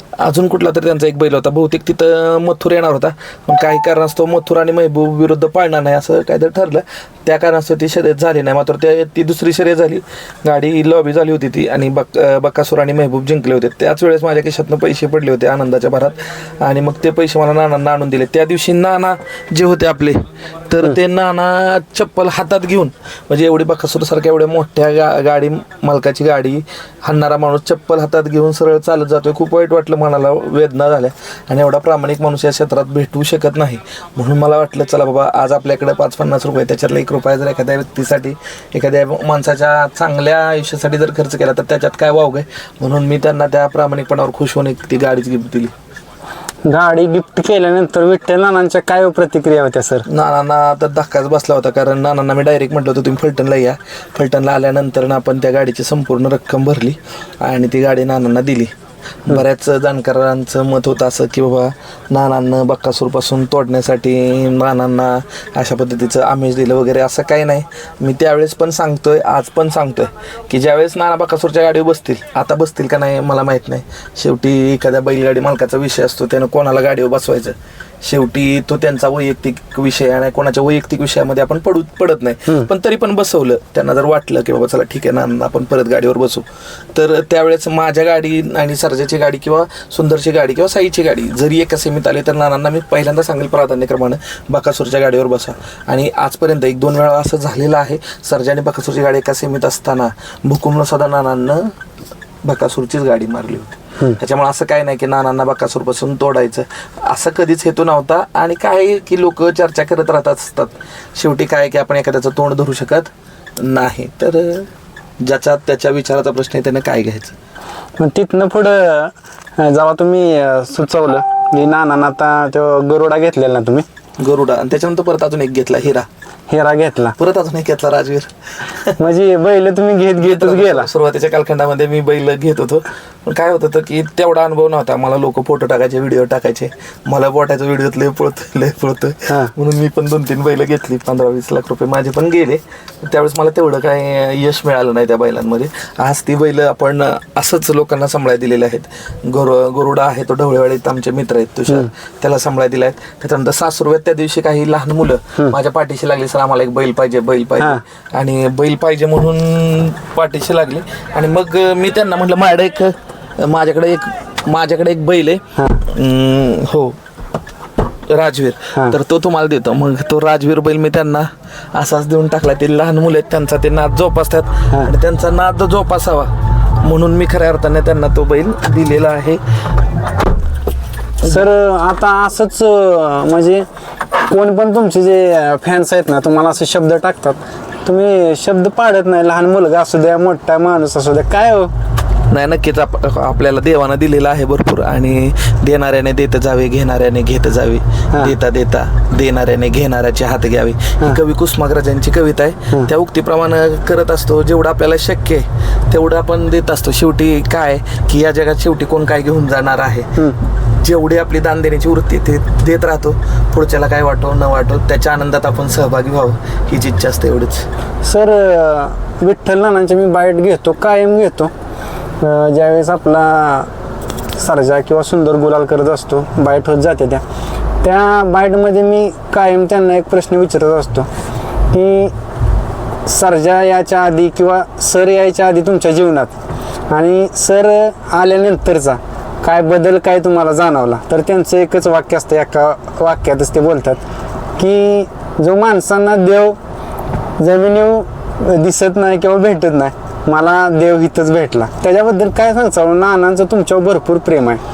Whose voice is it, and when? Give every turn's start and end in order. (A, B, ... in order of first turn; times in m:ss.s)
0:00.2-0:45.7 A
0:46.7-0:50.0 B
0:50.1-0:58.7 A
0:59.3-1:41.7 A
1:42.4-1:54.7 A
1:55.2-1:57.3 A
1:58.0-2:03.8 B
2:04.2-2:06.1 A
2:06.5-2:07.2 B
2:07.2-2:09.0 A
2:09.0-2:10.9 B
2:10.2-2:47.0 A
2:45.6-2:45.8 B
2:48.1-2:59.4 A
3:01.2-3:11.7 B
3:12.3-3:30.1 A
3:30.6-3:37.7 A
3:38.0-3:41.5 B
3:42.2-3:43.7 B
3:44.3-3:47.2 B
3:47.8-3:51.1 B
3:51.7-3:52.1 B
3:53.0-3:56.3 B
3:56.9-4:04.0 B
4:04.6-4:06.6 B
4:07.4-4:14.6 B